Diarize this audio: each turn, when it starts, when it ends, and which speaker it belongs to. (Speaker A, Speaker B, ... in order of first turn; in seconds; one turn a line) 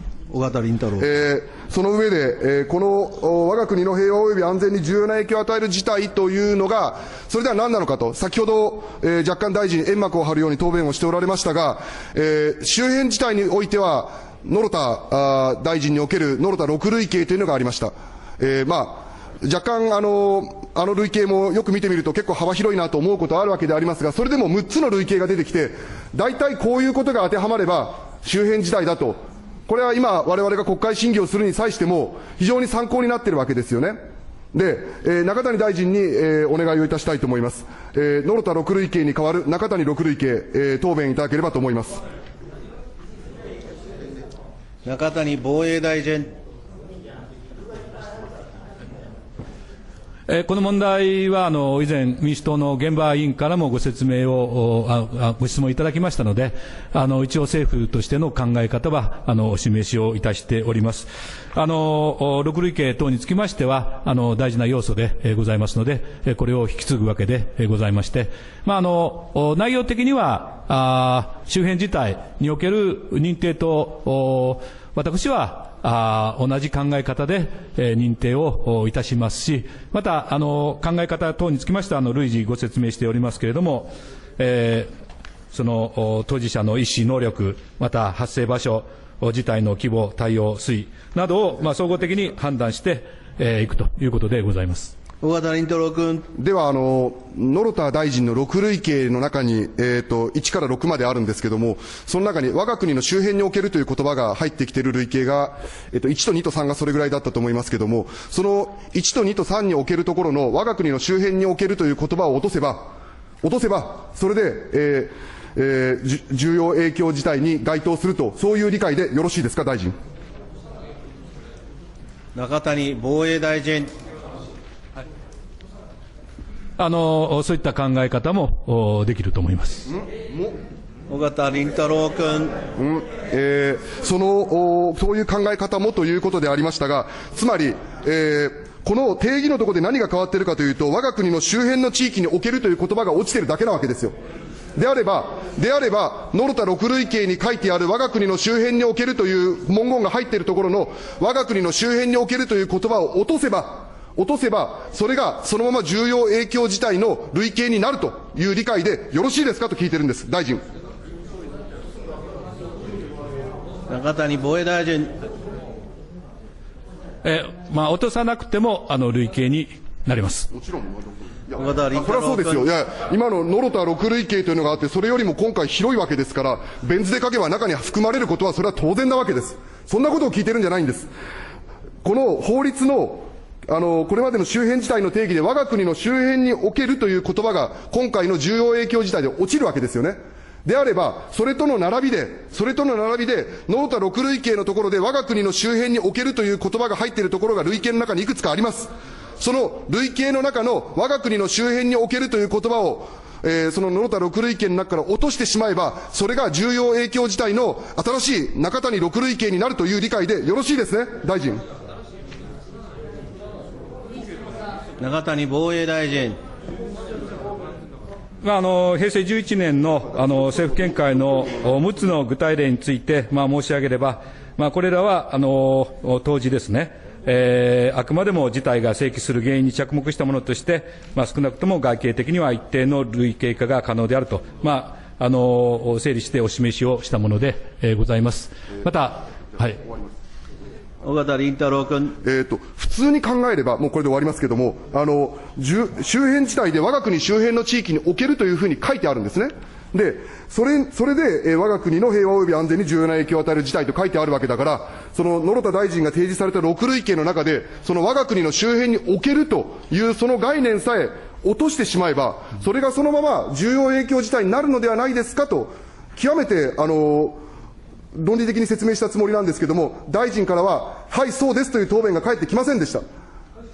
Speaker A: 0.3-1.1
Speaker B: 1.0-34.0
Speaker B: 34.5-42.0
Speaker A: 44.8-46.3
Speaker C: 50.3-84.9
Speaker C: 85.5-94.9
Speaker A: 95.2-96.3
Speaker B: 96.3-120.0
Speaker A: 122.3-123.9
Speaker C: 126.8-129.9
Speaker B: 129.9-130.6
Speaker A: 131.1-132.6
Speaker B: 132.8-144.1
Speaker B: 144.7-160.6
Speaker A: 163.9-165.2
Speaker C: 167.2-170.5
Speaker B: 170.5-181.1
Speaker A: 171.5-172.7
Speaker B: 182.0-211.6
Speaker A: 215.0-216.4
Speaker C: 218.4-239.8
Speaker A: 241.0-242.2
Speaker B: 242.2-267.4
Speaker B: 268.1-273.0